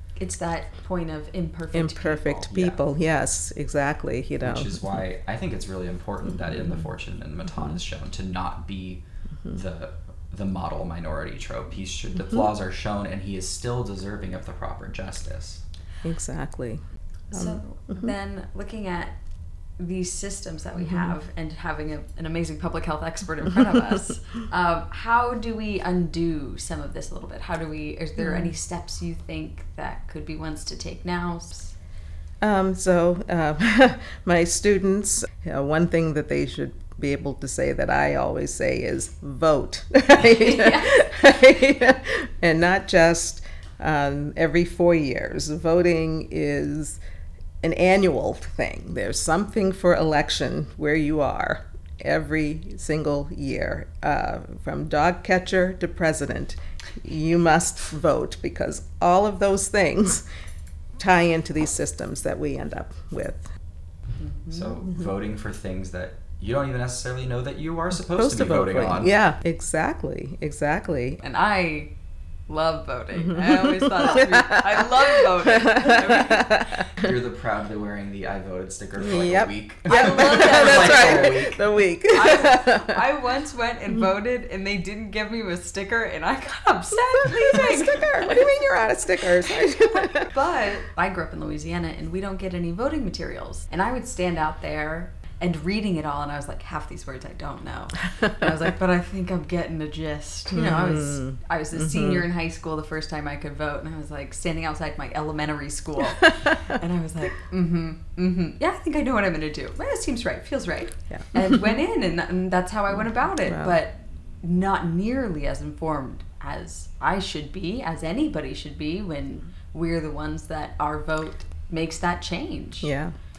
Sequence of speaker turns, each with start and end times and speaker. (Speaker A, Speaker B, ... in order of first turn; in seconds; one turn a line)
Speaker A: 0.2-2.5
Speaker B: 1.7-4.8
Speaker C: 2.5-2.8
Speaker C: 4.4-15.6
Speaker B: 16.0-16.8
Speaker B: 17.3-18.1
Speaker A: 17.3-19.2
Speaker A: 19.8-31.8
Speaker B: 20.8-21.1
Speaker B: 28.2-28.5
Speaker B: 32.4-47.0
Speaker A: 40.2-41.0
Speaker B: 47.6-60.2
Speaker B: 61.0-63.5
Speaker A: 64.2-64.8
Speaker C: 64.5-69.1
Speaker B: 68.1-71.2
Speaker A: 71.2-71.9
Speaker A: 72.5-76.7
Speaker B: 73.2-77.1
Speaker C: 77.0-81.7
Speaker B: 79.0-83.0
Speaker A: 79.9-88.6
Speaker B: 87.1-90.3
Speaker A: 89.2-122.9
Speaker B: 100.5-102.2
Speaker B: 111.1-111.3
Speaker B: 113.5-113.8
Speaker B: 122.8-123.1